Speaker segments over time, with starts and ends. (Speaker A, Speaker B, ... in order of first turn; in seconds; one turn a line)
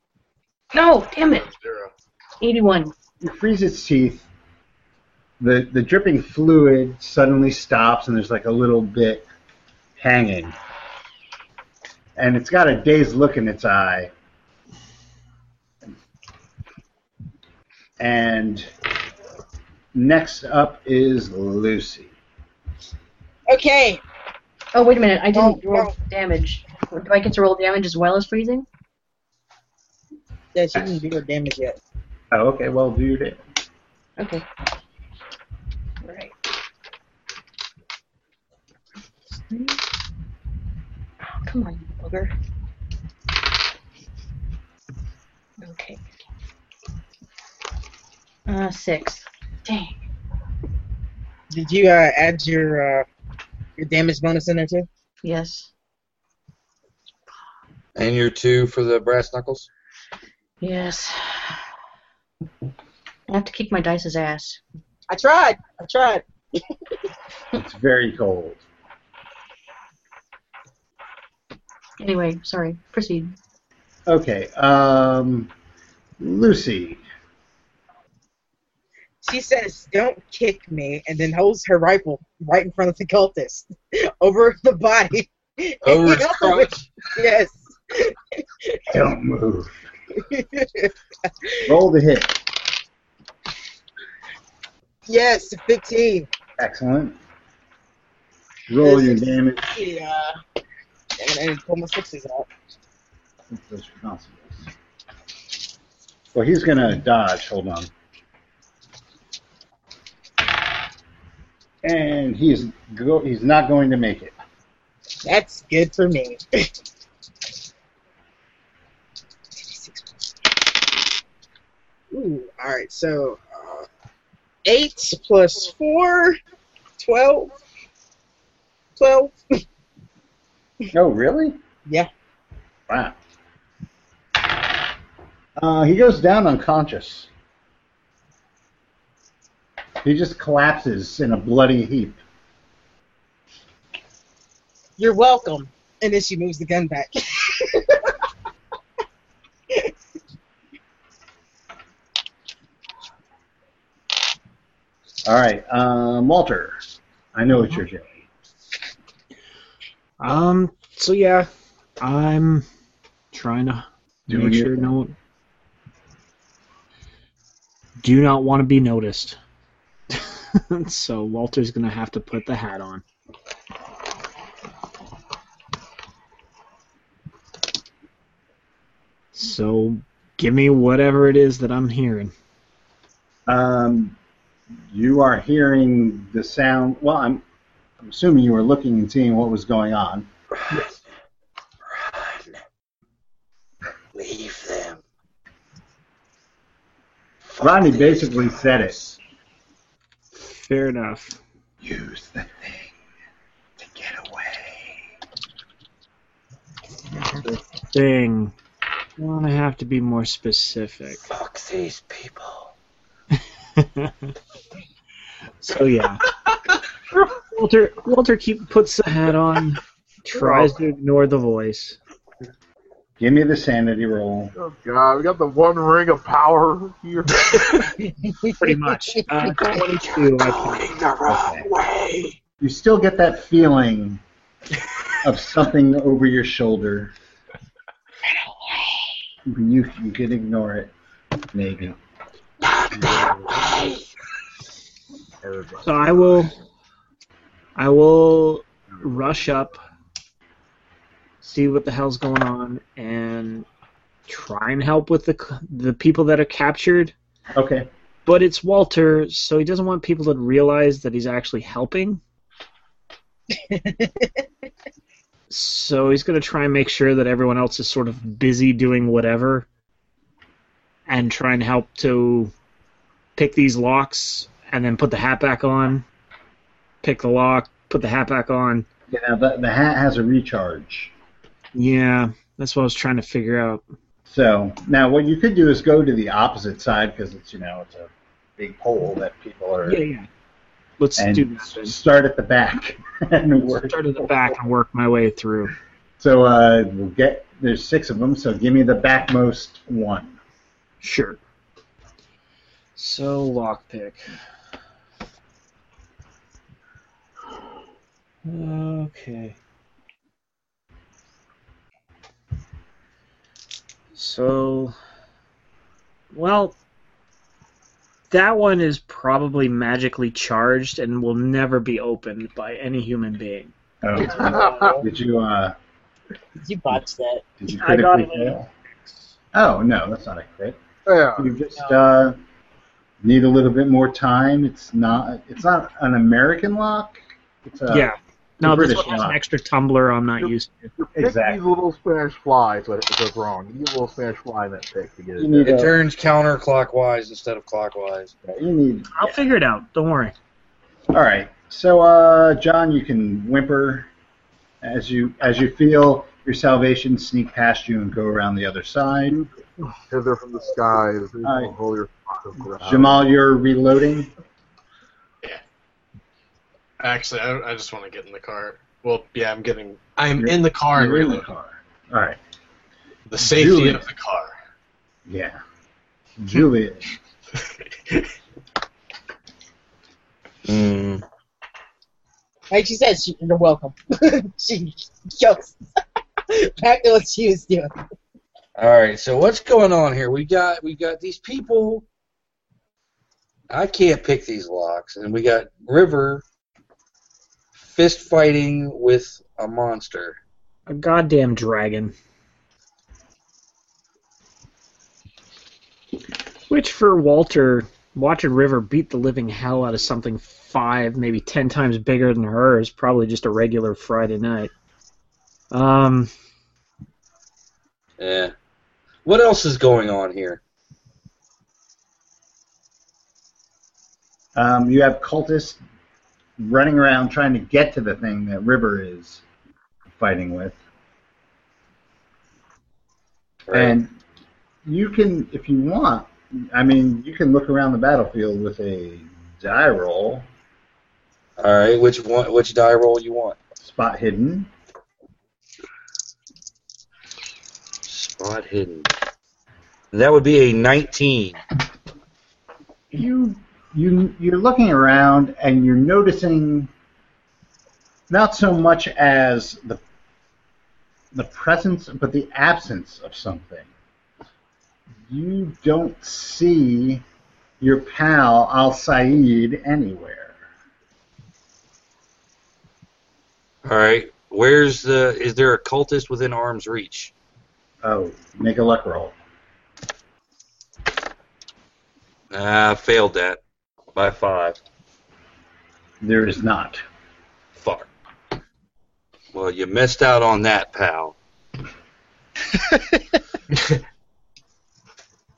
Speaker A: 0.7-1.5
Speaker B: 1.3-1.9
Speaker A: 2.4-2.9
Speaker C: 3.2-4.3
Speaker C: 5.4-9.3
Speaker C: 10.0-10.6
Speaker C: 12.2-14.1
Speaker C: 18.0-18.7
Speaker C: 19.9-22.1
Speaker D: 23.5-24.0
Speaker A: 24.7-28.6
Speaker D: 25.3-25.9
Speaker D: 30.5-31.8
Speaker C: 30.7-31.0
Speaker C: 32.3-33.4
Speaker A: 34.2-34.4
Speaker A: 36.0-36.3
Speaker A: 39.3-39.8
Speaker A: 41.4-42.3
Speaker A: 45.6-46.0
Speaker A: 48.5-50.0
Speaker D: 51.5-53.0
Speaker D: 53.8-54.9
Speaker A: 55.2-55.7
Speaker E: 57.9-59.7
Speaker A: 60.6-61.6
Speaker A: 63.3-64.6
Speaker D: 65.1-66.6
Speaker C: 67.5-68.6
Speaker A: 72.0-73.3
Speaker C: 74.1-75.5
Speaker C: 76.2-77.0
Speaker D: 79.2-88.8
Speaker E: 85.8-86.8
Speaker C: 88.9-89.9
Speaker D: 90.2-91.7
Speaker C: 91.7-92.4
Speaker D: 95.1-96.3
Speaker C: 96.6-97.2
Speaker C: 98.7-99.7
Speaker D: 98.8-100.3
Speaker D: 101.2-102.5
Speaker C: 103.5-104.7
Speaker C: 106.3-107.9
Speaker C: 111.8-114.3
Speaker D: 115.2-116.7
Speaker D: 119.6-120.3
Speaker D: 122.1-123.9
Speaker D: 124.6-126.4
Speaker D: 127.0-127.5
Speaker D: 129.0-129.6
Speaker C: 130.9-131.6
Speaker C: 132.9-133.2
Speaker C: 135.6-137.3
Speaker C: 140.0-142.2
Speaker D: 145.0-148.1
Speaker C: 155.2-156.8
Speaker C: 157.3-158.1
Speaker F: 160.2-161.5
Speaker F: 162.0-162.6
Speaker F: 163.3-165.1
Speaker C: 164.3-164.9
Speaker F: 168.0-169.4
Speaker F: 170.1-173.0
Speaker F: 179.3-182.3
Speaker C: 183.5-184.1
Speaker C: 184.9-187.4
Speaker C: 188.0-190.3
Speaker E: 191.9-192.6
Speaker E: 194.1-195.0
Speaker E: 197.5-198.4
Speaker C: 197.6-199.0
Speaker F: 200.4-201.4
Speaker C: 201.8-202.9
Speaker C: 203.8-205.0
Speaker F: 207.9-208.5
Speaker F: 209.2-211.2
Speaker E: 211.2-212.7
Speaker F: 213.4-214.3
Speaker F: 215.6-216.2
Speaker F: 217.3-222.0
Speaker G: 220.3-220.8
Speaker C: 223.2-224.5
Speaker G: 224.5-227.9
Speaker D: 228.0-229.6
Speaker F: 228.6-231.0
Speaker E: 230.7-231.9
Speaker C: 231.2-231.7
Speaker C: 232.6-234.2
Speaker C: 235.2-237.1
Speaker C: 239.4-240.9
Speaker C: 241.5-242.0
Speaker G: 243.0-243.6
Speaker G: 245.4-246.4
Speaker F: 245.8-246.5
Speaker F: 247.8-249.8
Speaker F: 251.4-253.7
Speaker F: 254.3-257.1
Speaker C: 257.5-257.9
Speaker F: 258.2-262.2
Speaker D: 263.5-264.4
Speaker F: 265.5-269.7
Speaker F: 271.1-272.5
Speaker F: 273.4-276.0
Speaker F: 277.0-278.9
Speaker C: 279.1-281.1
Speaker F: 281.7-283.8
Speaker C: 284.3-290.0
Speaker F: 289.9-290.2
Speaker F: 291.0-291.9
Speaker C: 291.2-294.5
Speaker F: 293.7-295.7
Speaker C: 296.2-300.4
Speaker F: 301.0-301.4
Speaker F: 302.9-304.3
Speaker F: 308.4-309.6
Speaker F: 314.1-314.9
Speaker F: 316.3-316.8
Speaker F: 318.3-323.7
Speaker C: 324.0-325.7
Speaker G: 324.3-325.0
Speaker D: 324.6-325.0
Speaker D: 326.6-327.5
Speaker C: 327.6-328.7
Speaker F: 327.7-329.3
Speaker C: 329.5-330.8
Speaker G: 331.1-331.5
Speaker C: 331.4-332.4
Speaker C: 333.2-339.4
Speaker F: 337.9-340.9
Speaker G: 340.4-345.8
Speaker C: 341.1-341.6
Speaker C: 345.4-346.0
Speaker E: 345.6-348.3
Speaker C: 348.4-349.5
Speaker F: 349.1-350.3
Speaker C: 351.1-354.1
Speaker C: 354.8-359.4
Speaker G: 359.3-363.3
Speaker C: 361.4-361.8
Speaker C: 362.8-364.3
Speaker B: 367.0-371.5
Speaker C: 370.4-372.4
Speaker B: 373.3-374.5
Speaker C: 373.4-374.0
Speaker C: 375.3-375.6
Speaker C: 376.4-377.1
Speaker E: 380.6-381.2
Speaker D: 382.7-385.8
Speaker D: 386.5-387.9
Speaker E: 388.8-392.1
Speaker E: 393.7-396.4
Speaker E: 397.8-400.4
Speaker F: 400.9-402.1
Speaker F: 406.7-414.7
Speaker F: 415.7-416.3
Speaker E: 418.2-418.5
Speaker E: 419.2-420.6
Speaker C: 424.6-425.8
Speaker C: 426.6-429.4
Speaker C: 430.1-430.8
Speaker C: 433.7-434.1
Speaker E: 433.7-433.9
Speaker C: 434.8-440.4
Speaker E: 441.6-443.6
Speaker C: 443.8-444.7
Speaker E: 448.1-449.1
Speaker E: 450.1-451.6
Speaker C: 453.1-456.9
Speaker C: 458.3-460.0
Speaker C: 461.3-463.9
Speaker C: 465.3-467.2
Speaker C: 467.8-470.6
Speaker E: 473.8-477.3
Speaker C: 478.0-479.3
Speaker E: 482.5-483.6
Speaker E: 484.1-484.8
Speaker C: 486.2-487.0
Speaker E: 487.8-488.1
Speaker E: 489.5-491.4